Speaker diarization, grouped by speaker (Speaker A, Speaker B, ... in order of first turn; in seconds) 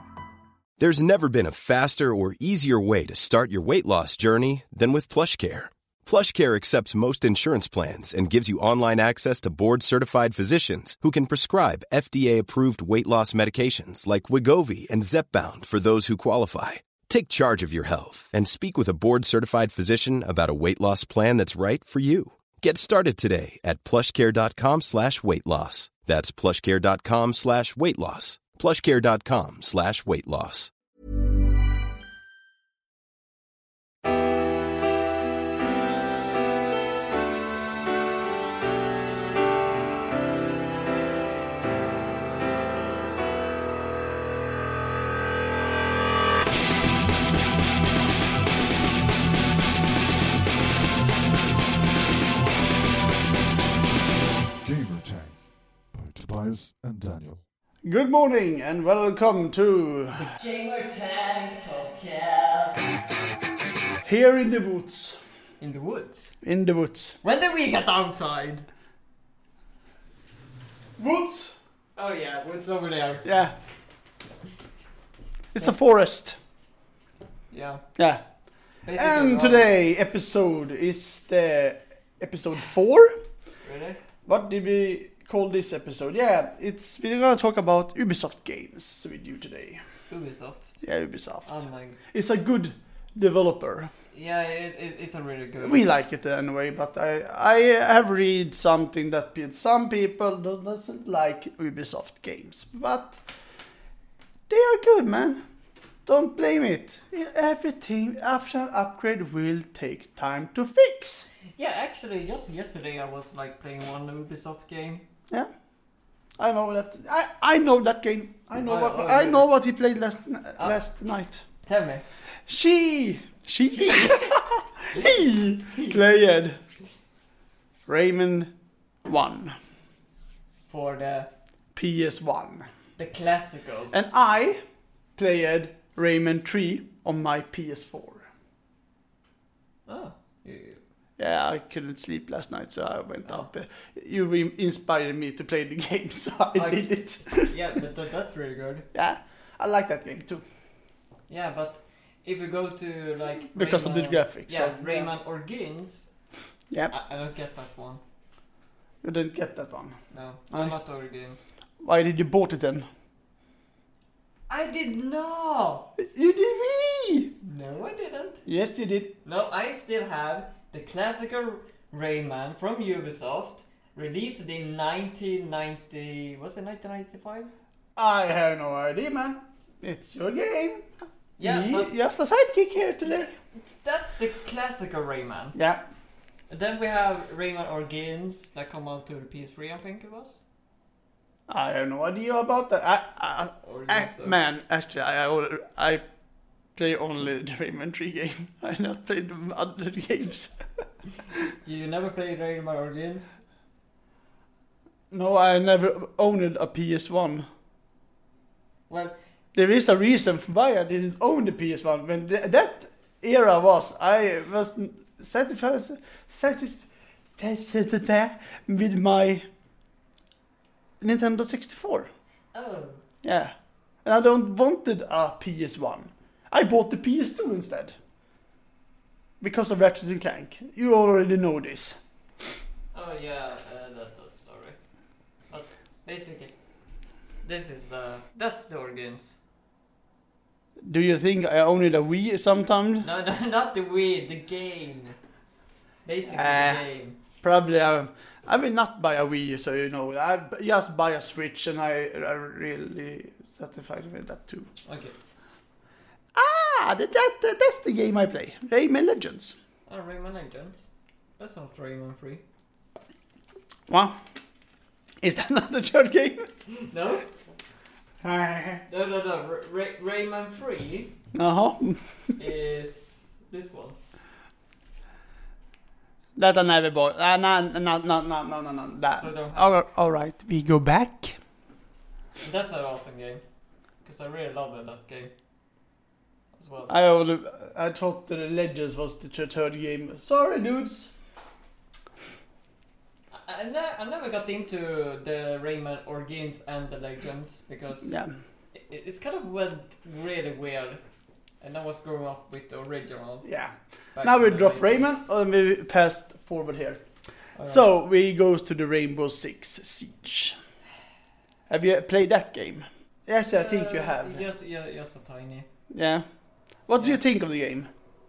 Speaker A: 0.8-30.7
Speaker B: 54.6-57.4
Speaker C: 57.8-60.2, 64.0-65.2, 66.4-67.2, 71.0-71.6, 73.2-73.6, 75.5-76.4, 78.0-78.2, 78.9-83.2, 84.3-89.8, 90.8-93.9, 95.6-103.2, 104.5-105.4, 106.1-111.3, 116.4-121.5, 122.5-126.6, 127.9-128.5, 129.1-129.6, 131.8-132.7, 133.9-134.6, 135.2-138.3, 141.2-147.5, 148.9-150.4, 153.5-155.1, 159.0-160.0, 161.8-162.9, 166.0-167.3, 168.5-169.2, 178.0-183.3, 185.6-185.8, 191.5-196.0, 196.8-200.6, 205.1-207.5, 209.6-219.5, 221.0-222.1, 223.2-228.0, 229.4-232.0, 240.8-243.1, 246.3-246.8, 247.4-254.7, 256.4-259.6, 263.9-264.2, 265.2-266.5, 268.2-268.9, 271.3-272.4, 276.4-281.4, 286.9-291.1, 298.0-298.4, 303.4-307.0, 307.6-310.6, 311.7-314.4, 315.9-316.3, 316.9-317.9
Speaker D: 60.1-63.0, 65.6-66.3, 67.2-68.7, 72.0-73.3, 77.5-77.8, 78.8-79.7, 83.6-84.0, 90.1-90.7, 91.5-92.0, 94.1-95.8, 111.6-115.0, 118.6-119.5, 120.6-120.8, 121.6-122.0, 123.7-124.4, 124.9-126.0, 130.7-131.3, 133.0-133.9, 139.9-140.8, 146.6-148.9, 151.3-156.1, 156.9-158.0, 160.1-161.6, 164.5-165.9, 167.4-168.4, 169.2-177.5, 181.4-181.9, 183.7-185.6, 186.5-190.4, 193.6-194.4, 201.6-203.4, 208.9-209.2, 222.5-223.0, 232.9-234.8, 235.5-236.5, 237.4-239.4, 243.0-245.2, 246.1-247.2, 254.8-255.2, 259.9-260.9, 261.4-262.4, 266.7-267.3, 268.9-271.1, 272.4-274.0, 279.2-279.8, 282.4-283.4, 284.0-285.3, 286.5-287.0, 293.3-298.2, 298.7-301.0, 301.6-303.5, 304.1-305.2, 307.6-307.9, 313.5-315.7